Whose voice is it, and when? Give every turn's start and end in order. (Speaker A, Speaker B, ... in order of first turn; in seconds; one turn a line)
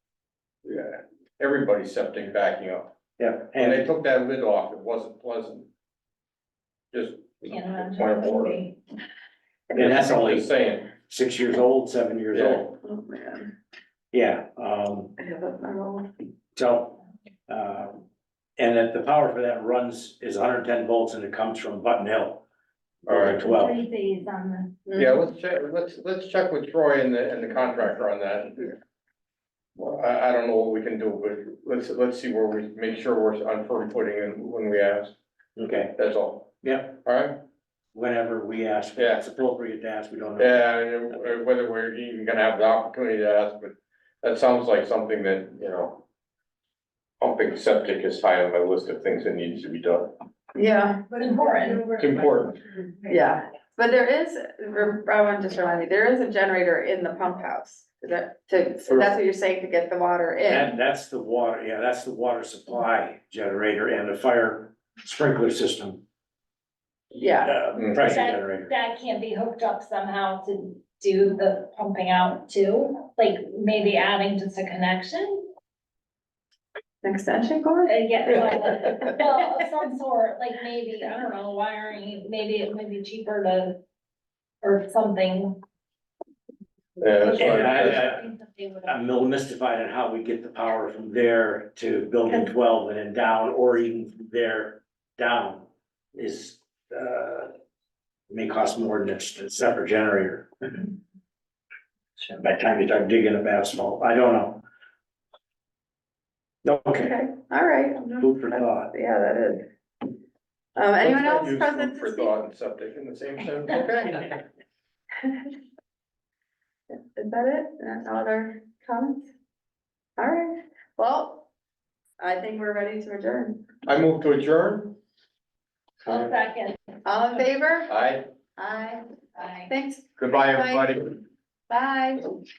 Speaker A: 0.6-2.9
Speaker B: 3.2-3.9
Speaker A: 3.5-5.7
Speaker A: 6.9-8.6
Speaker C: 7.4-8.8
Speaker A: 9.7-10.9
Speaker B: 9.7-12.7
Speaker A: 12.3-12.7
Speaker D: 12.8-13.5
Speaker B: 14.1-15.1
Speaker D: 15.2-16.1
Speaker B: 16.6-18.0
Speaker B: 18.6-22.4
Speaker A: 23.1-23.7
Speaker B: 23.1-23.8
Speaker C: 23.5-24.8
Speaker A: 24.9-28.7
Speaker A: 29.8-35.1
Speaker B: 35.5-35.9
Speaker A: 35.9-36.5
Speaker B: 36.6-37.0
Speaker A: 37.0-37.4
Speaker B: 37.9-40.6
Speaker A: 39.0-39.2
Speaker A: 40.4-46.0
Speaker A: 47.2-50.1
Speaker D: 50.5-51.1
Speaker C: 51.2-53.1
Speaker A: 52.0-52.6
Speaker D: 53.1-60.7
Speaker B: 58.8-59.1
Speaker B: 60.5-66.0
Speaker D: 67.1-67.6
Speaker B: 67.4-68.7
Speaker A: 67.7-68.0
Speaker C: 68.0-75.5
Speaker D: 77.0-78.0
Speaker C: 77.8-83.8
Speaker C: 84.6-85.6
Speaker A: 87.0-88.0
Speaker C: 87.2-89.0
Speaker B: 87.4-88.2
Speaker B: 88.8-97.5
Speaker B: 98.3-100.9
Speaker B: 102.2-104.6
Speaker B: 106.6-107.2
Speaker D: 107.0-109.7
Speaker B: 108.2-108.9
Speaker D: 110.8-112.3
Speaker A: 111.0-114.4
Speaker D: 116.9-119.3
Speaker D: 120.2-121.5
Speaker D: 122.2-123.7
Speaker A: 123.8-124.9
Speaker C: 126.0-127.0
Speaker D: 127.0-127.9
Speaker A: 127.9-128.2
Speaker D: 128.6-129.0
Speaker C: 129.3-129.7
Speaker D: 129.7-130.9
Speaker A: 130.2-131.2
Speaker D: 131.7-132.3